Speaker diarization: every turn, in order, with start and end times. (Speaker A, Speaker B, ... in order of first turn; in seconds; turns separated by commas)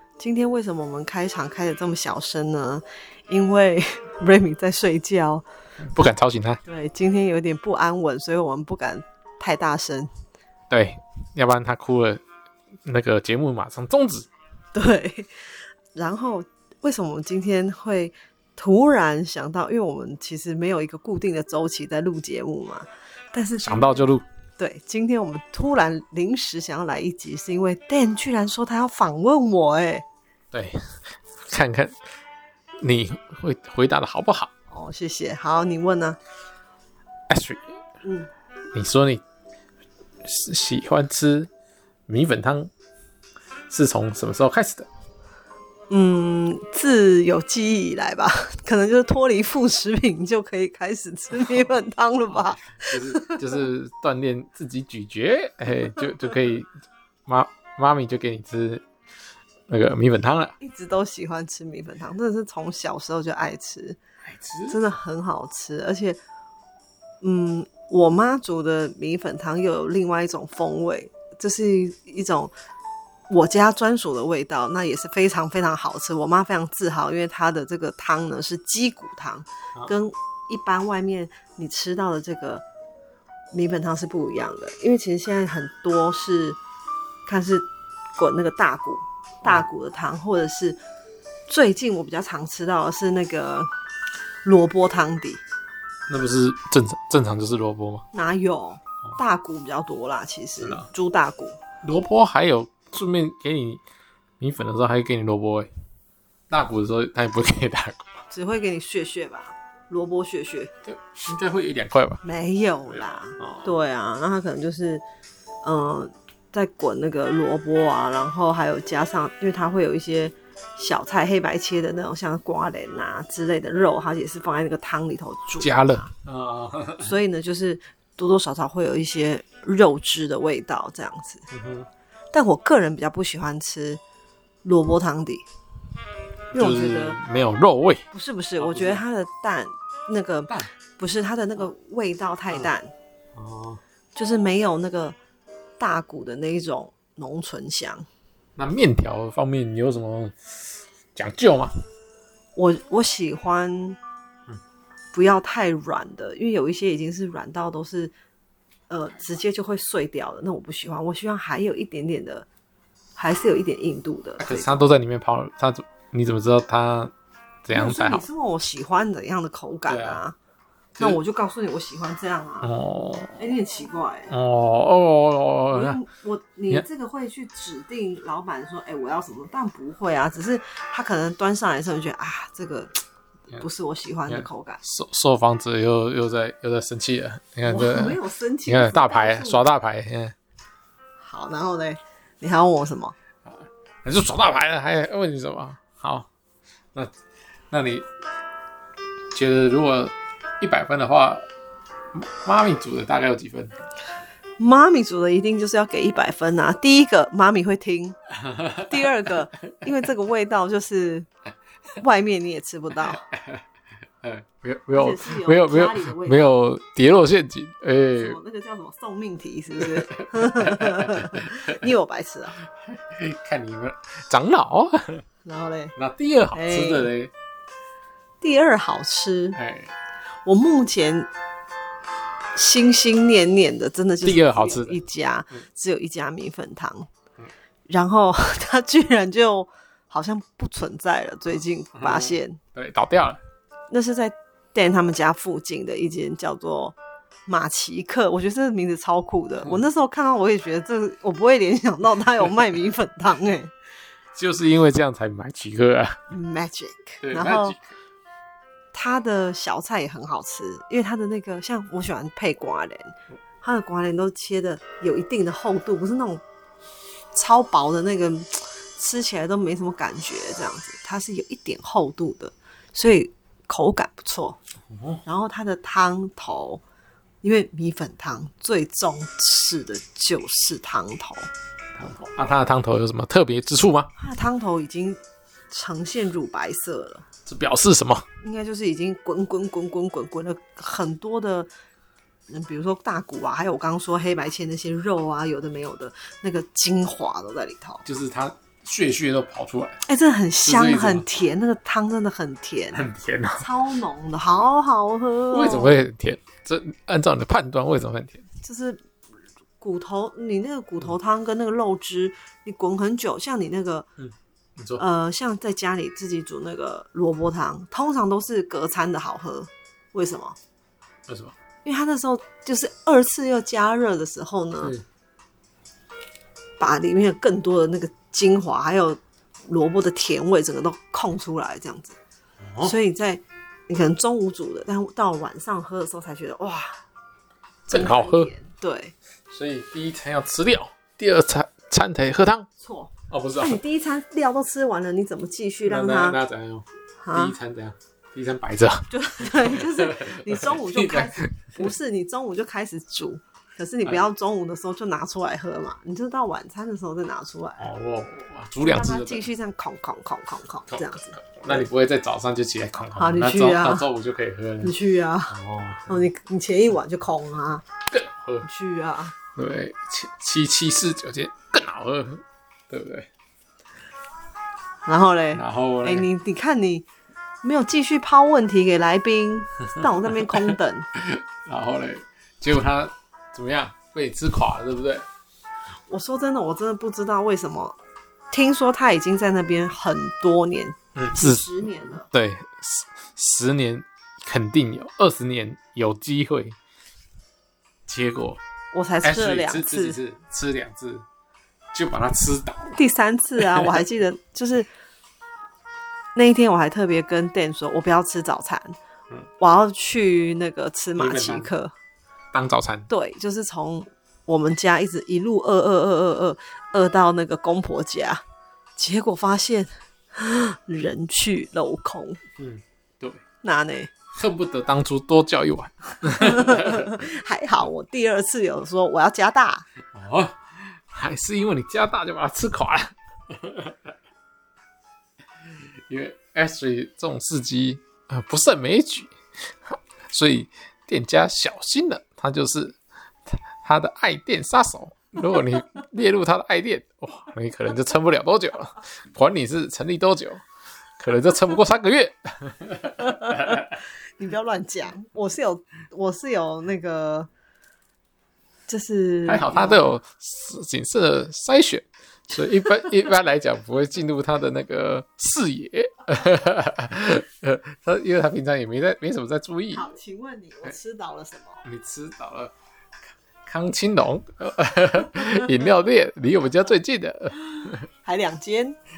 Speaker A: 0.2-5.5, Speaker B: 5.8-6.6, Speaker A: 6.7-10.1, Speaker B: 10.7-12.2, Speaker B: 12.8-14.3, Speaker A: 14.7-15.3, Speaker A: 15.9-30.0, Speaker B: 23.6-24.3, Speaker B: 30.5-30.8, Speaker B: 31.5-31.9, Speaker B: 32.8-34.5, Speaker A: 34.7-36.2, Speaker B: 37.3-37.6, Speaker A: 38.0-38.3, Speaker B: 38.7-39.2, Speaker B: 40.2-41.5, Speaker B: 42.1-42.7, Speaker B: 43.7-44.9, Speaker A: 45.9-53.4, Speaker B: 52.3-56.7, Speaker B: 57.3-58.8, Speaker B: 59.7-60.6, Speaker A: 60.6-64.0, Speaker B: 64.2-64.8, Speaker A: 64.7-66.2, Speaker A: 67.2-72.5, Speaker A: 73.3-82.7, Speaker A: 83.5-86.6, Speaker A: 87.3-90.8, Speaker A: 91.5-93.7, Speaker A: 94.4-95.4, Speaker B: 96.1-98.0, Speaker A: 98.1-101.6, Speaker B: 100.6-100.9, Speaker B: 101.8-103.8, Speaker B: 104.4-105.7, Speaker B: 106.5-108.2, Speaker A: 108.3-110.7, Speaker B: 110.8-112.2, Speaker A: 112.2-115.0, Speaker B: 112.9-113.7, Speaker A: 115.6-126.1, Speaker B: 125.6-127.1, Speaker A: 127.0-131.4, Speaker B: 131.5-131.9, Speaker A: 132.3-134.0, Speaker A: 134.6-135.4, Speaker B: 136.5-138.0, Speaker A: 136.5-137.2, Speaker A: 138.1-142.9, Speaker B: 138.6-139.0, Speaker B: 143.3-143.8, Speaker A: 144.2-145.2, Speaker A: 145.8-148.1, Speaker B: 148.6-150.6, Speaker B: 151.2-151.7, Speaker A: 152.6-154.0, Speaker A: 155.1-158.1, Speaker A: 158.9-162.5, Speaker A: 163.2-164.8, Speaker B: 164.4-167.1, Speaker B: 167.7-168.2, Speaker A: 167.7-170.4, Speaker B: 169.9-170.2, Speaker A: 171.0-172.7, Speaker B: 172.6-173.4, Speaker A: 173.4-174.3, Speaker B: 174.3-176.0, Speaker A: 175.7-183.0, Speaker A: 183.5-184.8, Speaker B: 184.3-190.3, Speaker A: 187.7-189.7, Speaker A: 191.2-193.2, Speaker B: 193.5-196.3, Speaker B: 197.7-198.1, Speaker B: 199.3-201.4, Speaker B: 202.1-203.7, Speaker A: 204.6-208.2, Speaker B: 208.4-209.1, Speaker A: 208.8-211.3, Speaker A: 212.0-213.3, Speaker B: 213.1-213.6, Speaker B: 214.2-218.4, Speaker A: 214.9-216.5, Speaker A: 218.2-222.6, Speaker B: 219.9-221.8, Speaker B: 222.8-225.2, Speaker A: 225.4-225.9, Speaker B: 226.0-227.3, Speaker A: 226.5-227.1, Speaker A: 228.4-229.6, Speaker B: 229.6-229.9, Speaker A: 230.5-231.3, Speaker A: 232.5-237.1, Speaker B: 234.2-235.0, Speaker A: 237.9-242.6, Speaker B: 242.0-243.4, Speaker A: 243.9-253.7, Speaker B: 254.3-256.2, Speaker A: 256.3-257.8, Speaker B: 257.2-257.9, Speaker A: 258.9-266.4, Speaker A: 267.3-274.6, Speaker B: 274.9-275.2, Speaker A: 275.2-276.8, Speaker A: 277.4-281.5, Speaker B: 282.0-284.1, Speaker A: 284.2-285.2, Speaker A: 285.7-287.2, Speaker B: 287.5-288.2, Speaker A: 288.4-291.7, Speaker A: 292.5-298.0, Speaker B: 298.1-300.0, Speaker A: 300.1-303.1, Speaker B: 300.6-301.3, Speaker B: 302.9-303.7, Speaker A: 303.6-305.9, Speaker B: 305.5-308.4, Speaker A: 308.6-309.0, Speaker A: 309.8-314.1, Speaker B: 314.2-315.0, Speaker A: 315.0-320.6, Speaker B: 321.3-321.5, Speaker A: 321.9-325.0, Speaker A: 326.8-332.2, Speaker B: 332.6-332.9, Speaker A: 332.8-337.0, Speaker B: 337.9-338.5, Speaker A: 337.9-339.1, Speaker B: 339.5-342.7, Speaker A: 342.8-346.4, Speaker B: 343.3-343.8, Speaker B: 345.9-351.9, Speaker A: 347.2-347.6, Speaker A: 349.1-357.9, Speaker B: 357.8-359.4, Speaker A: 358.8-361.9, Speaker B: 360.9-364.9, Speaker A: 363.1-364.1, Speaker A: 364.8-365.6, Speaker B: 365.5-366.2, Speaker A: 366.1-367.9, Speaker B: 368.1-368.7, Speaker A: 368.6-369.3, Speaker B: 369.6-373.3, Speaker A: 375.1-377.1, Speaker B: 375.5-376.3, Speaker A: 377.6-381.1, Speaker B: 380.4-385.3, Speaker A: 386.1-388.0, Speaker A: 388.5-392.3, Speaker B: 391.1-391.7, Speaker B: 392.2-396.8, Speaker B: 398.1-398.6, Speaker A: 398.9-400.2, Speaker B: 399.2-401.3, Speaker B: 401.9-402.9, Speaker A: 402.9-404.9, Speaker B: 403.6-403.9, Speaker A: 406.4-409.0, Speaker A: 409.6-411.9, Speaker B: 411.2-411.7, Speaker B: 412.5-413.1, Speaker A: 413.1-418.4, Speaker A: 419.0-422.4, Speaker B: 422.6-423.4, Speaker A: 423.6-424.1, Speaker B: 424.3-427.1, Speaker A: 426.4-429.9, Speaker B: 430.1-434.1, Speaker B: 435.7-439.3, Speaker B: 439.9-443.0, Speaker B: 443.5-450.6, Speaker B: 451.2-453.9, Speaker A: 453.2-457.5, Speaker A: 458.9-460.1, Speaker B: 459.5-470.1, Speaker A: 469.9-471.8, Speaker B: 471.9-472.7, Speaker B: 473.6-478.1, Speaker A: 478.2-479.0